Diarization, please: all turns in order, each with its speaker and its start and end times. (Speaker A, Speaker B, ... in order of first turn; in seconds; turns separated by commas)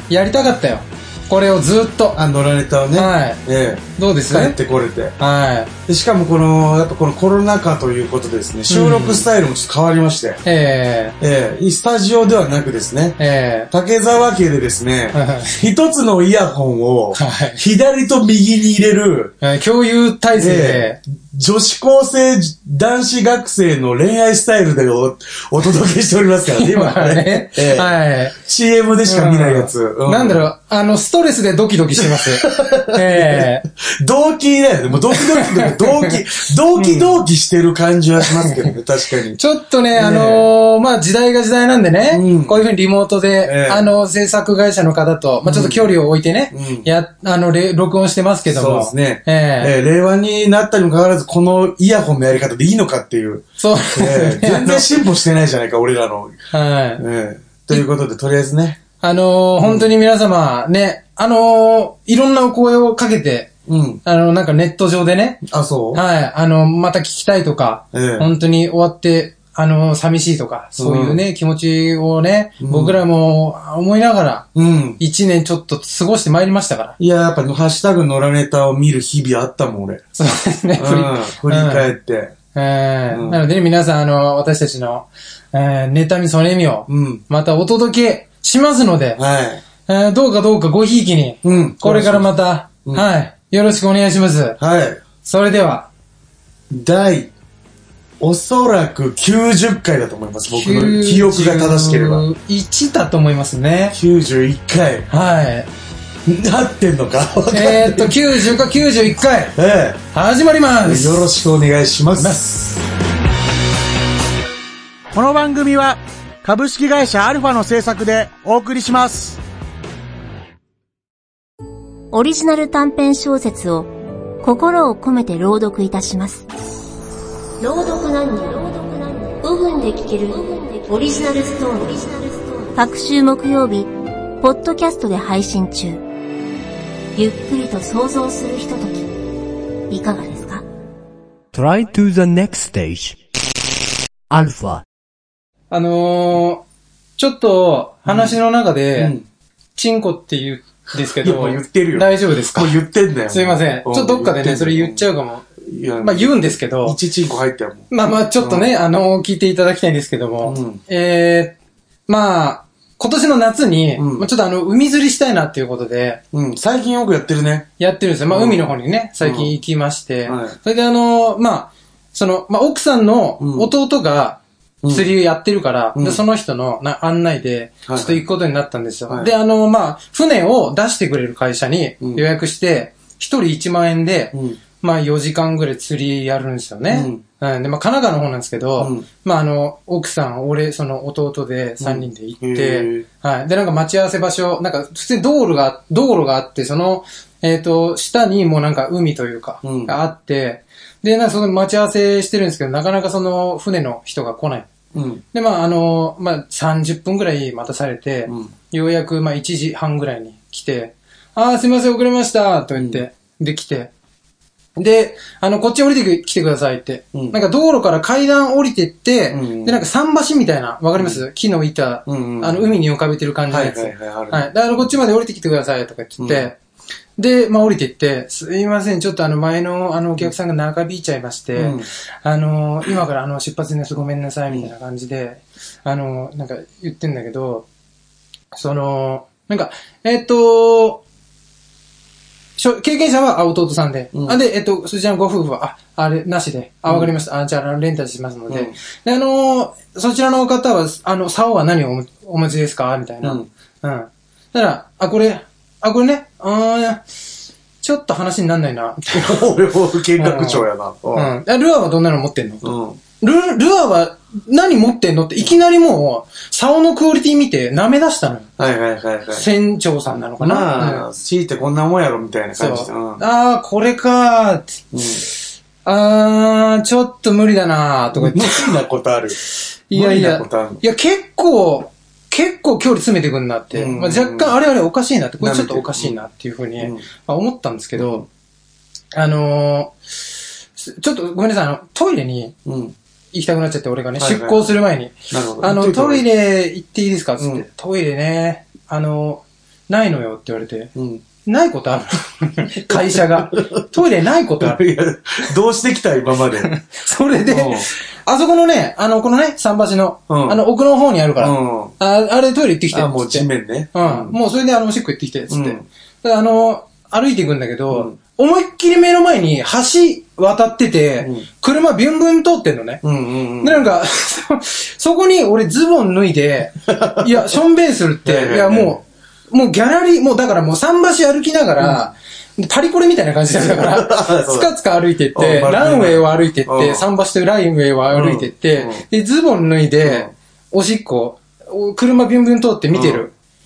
Speaker A: 0.1-2.2, Speaker B: 2.1-5.2, Speaker A: 3.0-3.4, Speaker A: 4.0-4.6, Speaker A: 5.2-5.7, Speaker B: 5.9-10.4, Speaker A: 8.7-9.3, Speaker A: 10.4-11.2, Speaker B: 11.2-13.2, Speaker A: 13.2-13.7, Speaker B: 13.7-19.4, Speaker A: 15.1-15.6, Speaker A: 17.1-17.6, Speaker A: 19.4-21.0, Speaker B: 20.4-30.5, Speaker A: 26.5-28.4, Speaker A: 29.1-33.6, Speaker B: 32.0-39.4, Speaker A: 35.2-36.2, Speaker A: 36.8-37.2, Speaker A: 38.2-38.7, Speaker A: 39.4-49.7, Speaker B: 39.9-40.5, Speaker B: 42.1-42.6, Speaker B: 43.4-43.9, Speaker B: 45.4-46.0, Speaker B: 46.5-46.9, Speaker B: 48.5-56.4, Speaker A: 53.6-55.0, Speaker A: 56.5-57.0, Speaker B: 57.0-58.8, Speaker A: 59.0-63.5, Speaker B: 59.6-59.9, Speaker B: 63.7-64.0, Speaker A: 64.0-74.5, Speaker B: 65.4-66.0, Speaker B: 67.9-68.3, Speaker B: 70.8-71.2, Speaker B: 72.6-73.0, Speaker B: 74.5-75.0, Speaker A: 75.0-77.0, Speaker B: 77.0-80.0, Speaker A: 80.2-81.9, Speaker B: 80.8-82.3, Speaker A: 82.5-89.2, Speaker B: 83.1-83.4, Speaker B: 86.9-87.2, Speaker B: 89.2-89.6, Speaker A: 89.8-94.6, Speaker B: 91.4-92.3, Speaker B: 94.6-95.0, Speaker A: 95.2-95.9, Speaker B: 96.7-97.3, Speaker B: 98.2-102.3, Speaker A: 100.5-104.0, Speaker B: 103.9-105.1, Speaker A: 105.1-105.7, Speaker B: 106.3-108.4, Speaker A: 107.5-109.5, Speaker B: 109.5-110.0, Speaker A: 110.1-111.3, Speaker B: 110.8-112.4, Speaker A: 112.2-112.8, Speaker C: 115.1-119.4, Speaker D: 122.1-123.9, Speaker D: 124.4-126.5, Speaker D: 127.6-136.0, Speaker D: 137.2-139.1, Speaker D: 139.9-140.6, Speaker E: 141.5-143.2, Speaker E: 144.3-144.8, Speaker A: 145.7-146.6, Speaker A: 147.2-149.1, Speaker B: 148.1-148.4, Speaker B: 149.0-149.3, Speaker A: 149.8-152.8, Speaker B: 151.0-155.1, Speaker A: 153.3-155.4, Speaker B: 155.6-158.7, Speaker A: 156.0-157.0, Speaker A: 157.9-161.6, Speaker B: 160.4-160.8, Speaker A: 162.1-166.2, Speaker B: 164.0-164.3, Speaker B: 166.3-167.7, Speaker A: 167.8-204.7, Speaker B: 168.3-169.5, Speaker B: 170.3-170.6, Speaker B: 173.4-173.7, Speaker B: 174.8-175.1, Speaker B: 176.0-176.2, Speaker B: 177.9-178.2, Speaker B: 184.3-184.6, Speaker B: 186.9-187.2, Speaker B: 188.8-189.1, Speaker B: 191.8-193.1, Speaker B: 199.6-199.9, Speaker B: 204.9-205.2, Speaker A: 205.3-213.9, Speaker B: 208.3-208.5, Speaker B: 212.8-213.1, Speaker A: 214.8-226.6, Speaker B: 217.1-217.4, Speaker B: 219.3-219.8, Speaker B: 221.0-221.2, Speaker B: 222.1-222.8, Speaker B: 223.5-224.5, Speaker B: 226.2-226.5, Speaker A: 227.2-237.7, Speaker B: 231.6-231.9, Speaker A: 238.5-241.0, Speaker A: 242.6-257.0, Speaker B: 244.1-244.4, Speaker B: 248.5-248.8, Speaker B: 253.2-253.5, Speaker A: 257.8-259.5, Speaker B: 259.1-261.3, Speaker A: 260.2-268.5, Speaker B: 262.6-263.0, Speaker B: 268.6-269.5, Speaker A: 269.4-271.1, Speaker B: 270.4-273.2, Speaker A: 272.6-274.9, Speaker B: 274.9-275.2, Speaker A: 275.8-278.7, Speaker B: 278.1-279.4, Speaker A: 279.9-288.3, Speaker B: 279.9-280.8, Speaker B: 283.7-284.5, Speaker B: 285.4-286.2, Speaker B: 286.8-287.1, Speaker B: 288.0-288.3, Speaker A: 289.1-289.9, Speaker A: 290.8-292.6, Speaker B: 292.6-292.9, Speaker A: 293.3-300.9, Speaker B: 294.2-294.8, Speaker B: 295.3-296.2, Speaker B: 297.4-297.6, Speaker B: 300.9-301.2, Speaker A: 301.4-304.8, Speaker B: 302.8-303.8, Speaker B: 304.6-306.7, Speaker A: 306.6-323.0, Speaker B: 307.5-307.9, Speaker B: 310.3-310.6, Speaker B: 311.4-311.9, Speaker B: 312.9-314.4, Speaker B: 315.5-315.9, Speaker B: 317.9-318.2, Speaker B: 321.2-321.5, Speaker B: 323.0-323.9, Speaker A: 323.6-343.3, Speaker B: 326.9-327.5, Speaker B: 328.2-329.0, Speaker B: 331.8-332.1, Speaker B: 333.6-334.7, Speaker B: 335.4-337.1, Speaker B: 338.1-339.0, Speaker B: 340.0-340.3, Speaker B: 342.9-343.3